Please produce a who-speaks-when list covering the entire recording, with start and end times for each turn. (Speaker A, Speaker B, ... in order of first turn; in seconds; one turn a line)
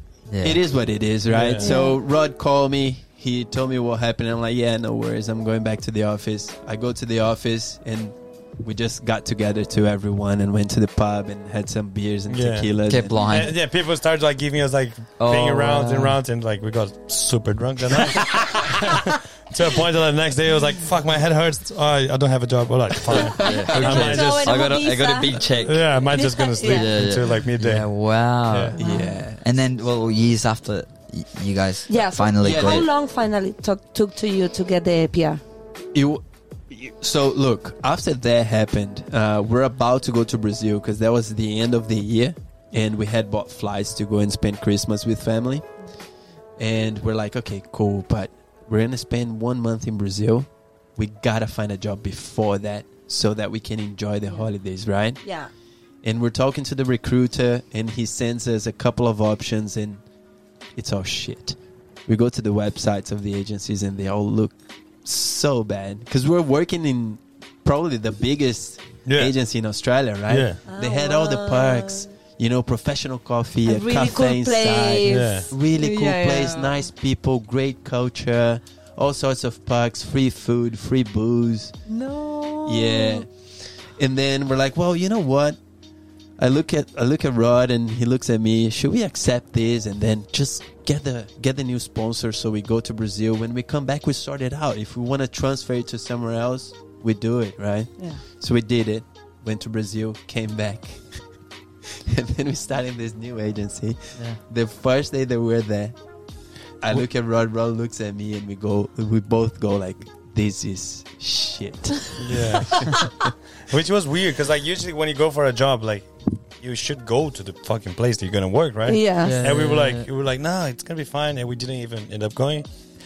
Speaker A: 0.3-0.6
Speaker B: 0.4-13.2
Speaker C: 1.3-1.7
Speaker D: 1.6-2.0
Speaker C: 12.3-24.7
Speaker A: 12.9-13.5
Speaker A: 15.2-16.2
Speaker B: 23.1-24.2
Speaker A: 23.4-28.8
Speaker D: 23.4-26.9
Speaker C: 25.6-27.9
Speaker C: 28.5-28.8
Speaker B: 28.7-29.4
Speaker D: 28.8-29.2
Speaker A: 29.3-32.9
Speaker D: 31.9-35.4
Speaker B: 32.4-32.9
Speaker B: 35.9-45.7
Speaker B: 46.6-55.2
Speaker D: 55.2-55.5
Speaker B: 56.0-60.0
Speaker B: 60.8-81.8
Speaker C: 69.1-69.3
Speaker C: 70.3-70.6
Speaker D: 70.7-72.1
Speaker D: 73.7-76.9
Speaker C: 75.1-75.5
Speaker D: 81.9-83.2
Speaker B: 82.7-85.6
Speaker B: 86.4-101.2
Speaker B: 101.8-106.0
Speaker B: 106.8-113.1
Speaker C: 112.2-122.7
Speaker D: 118.9-119.4
Speaker A: 119.2-120.1